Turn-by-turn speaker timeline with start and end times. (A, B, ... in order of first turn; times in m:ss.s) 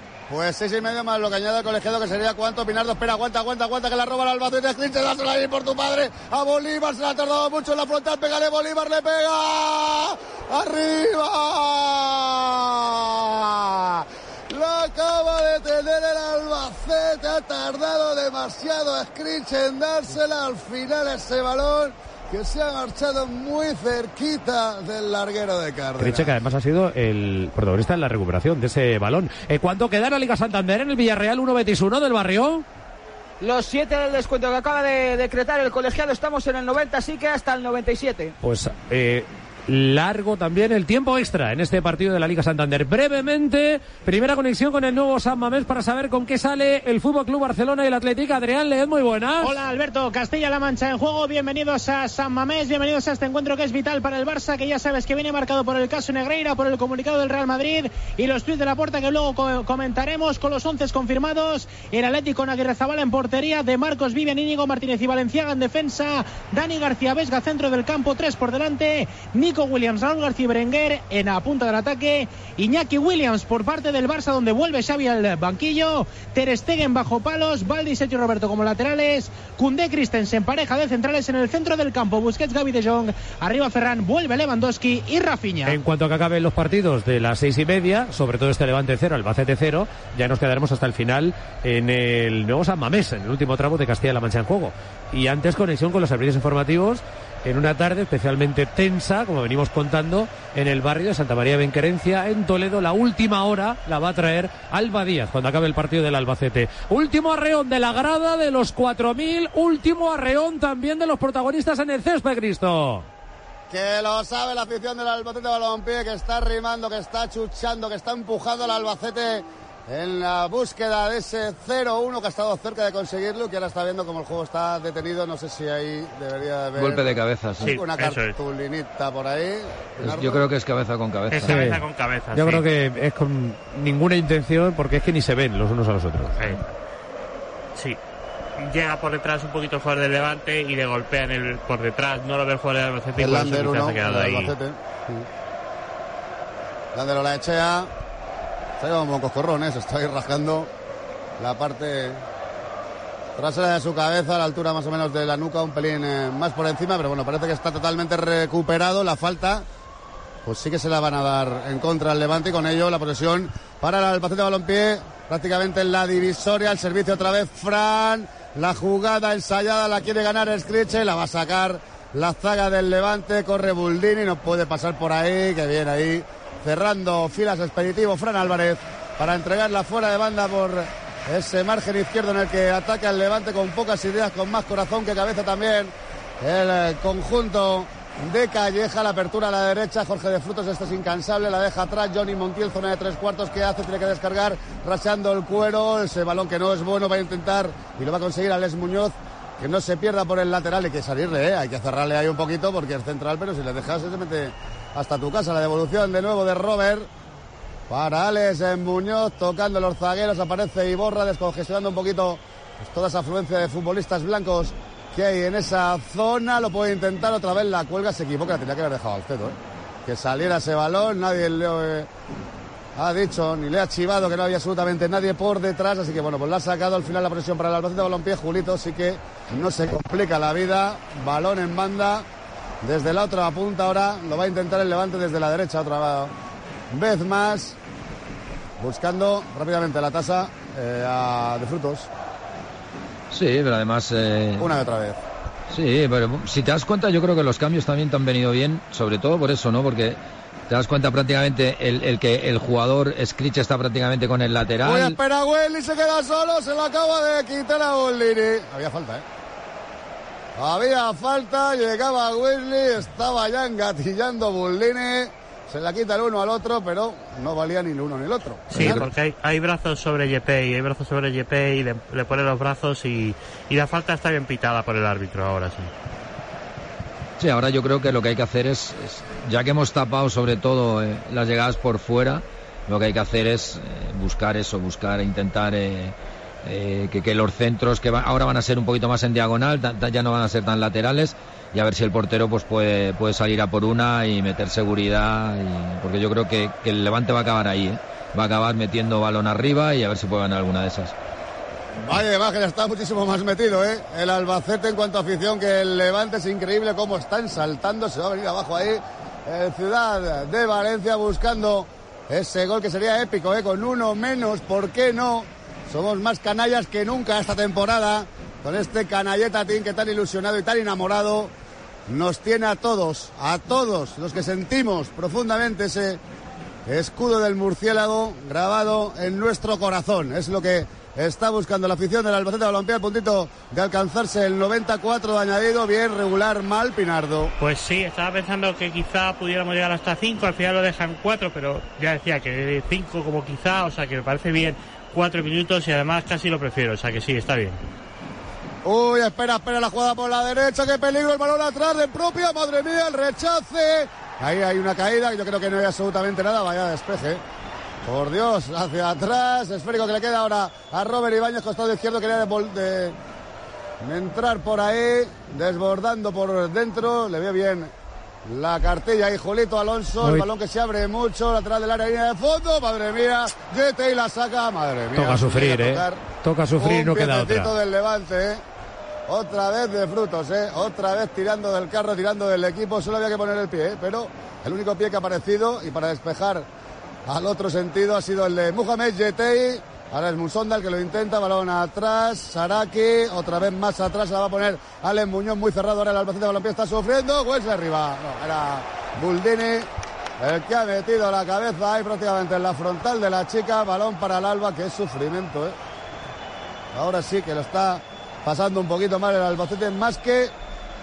0:00.3-0:26.4 A
0:26.0-0:32.6 B
0:33.4-0:38.3 C
0:38.4-0:49.6 B
0:49.4-1:25.8 D
1:25.7-1:53.1 B
1:53.7-2:10.5 A
2:06.8-2:07.8 E
2:07.6-2:08.4 F
2:10.0-2:11.7 E
2:11.3-2:12.6 F
2:11.4-2:16.6 B
2:16.4-2:16.8 F
2:18.6-2:24.5 F
2:23.2-2:25.3 A
2:27.0-2:27.9 A
2:28.8-2:30.7 A
2:31.4-2:32.2 A
2:33.4-2:39.7 A
2:40.5-3:27.1 A
3:27.9-3:42.1 A
3:43.0-3:52.3 A
3:52.8-3:56.3 A
3:56.9-3:57.8 A
3:58.8-4:02.1 A
4:03.3-4:04.7 E
4:04.6-4:05.2 A
4:05.7-4:15.2 E
4:14.8-4:19.2 A
4:20.6-4:29.1 A
4:28.7-4:35.9 F
4:28.8-4:29.0 E
4:37.4-5:01.2 E
5:02.0-5:21.5 A
5:22.1-5:26.2 A
5:26.9-5:37.5 A
5:37.6-5:47.8 F
5:48.8-5:57.4 A
5:58.0-6:03.2 A
6:04.0-6:07.9 A
6:08.5-6:16.2 A
6:10.2-6:10.5 B
6:15.2-6:17.7 B
6:16.8-6:18.6 A
6:19.3-6:26.7 A
6:27.3-6:39.9 A
6:40.4-6:45.8 A
6:46.9-6:50.5 A